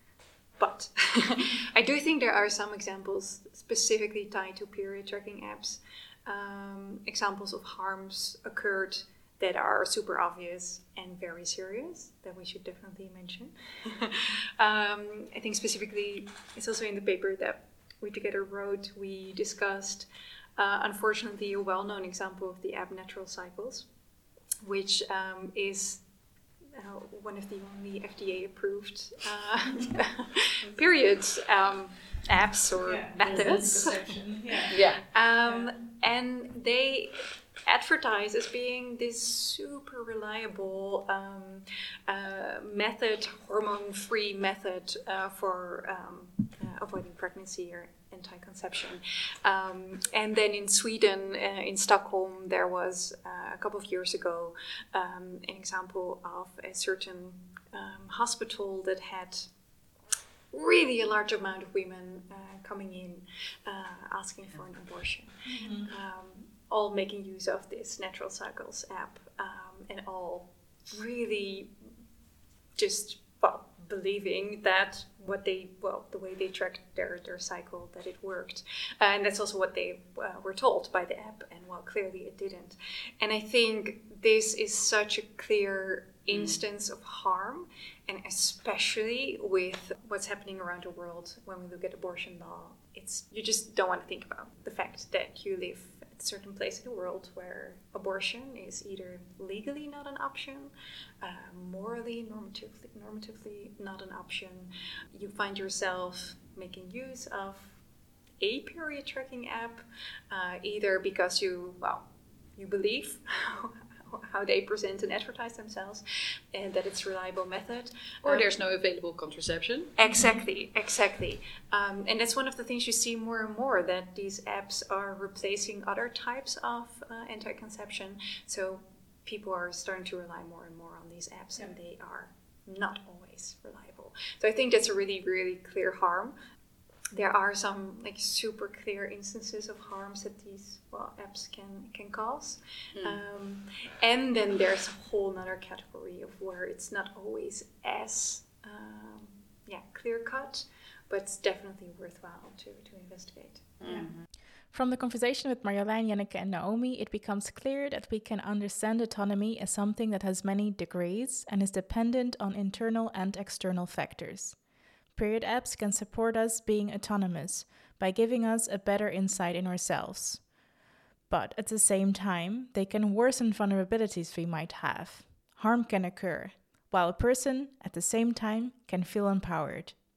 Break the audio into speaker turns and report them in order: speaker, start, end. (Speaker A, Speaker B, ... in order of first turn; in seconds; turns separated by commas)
Speaker A: 0.6-23.9, Speaker A: 24.6-26.0, Speaker A: 26.7-59.5, Speaker B: 32.8-34.8, Speaker C: 34.7-35.0, Speaker B: 35.4-35.7, Speaker A: 60.5-71.7, Speaker B: 65.5-65.9, Speaker A: 72.8-107.8, Speaker C: 86.3-86.6, Speaker A: 108.4-112.0, Speaker A: 112.5-118.5, Speaker C: 118.2-119.9, Speaker A: 120.0-136.3, Speaker B: 120.1-120.4, Speaker A: 137.1-154.1, Speaker C: 153.8-154.1, Speaker B: 154.7-164.6, Speaker B: 165.2-170.4, Speaker B: 171.3-180.0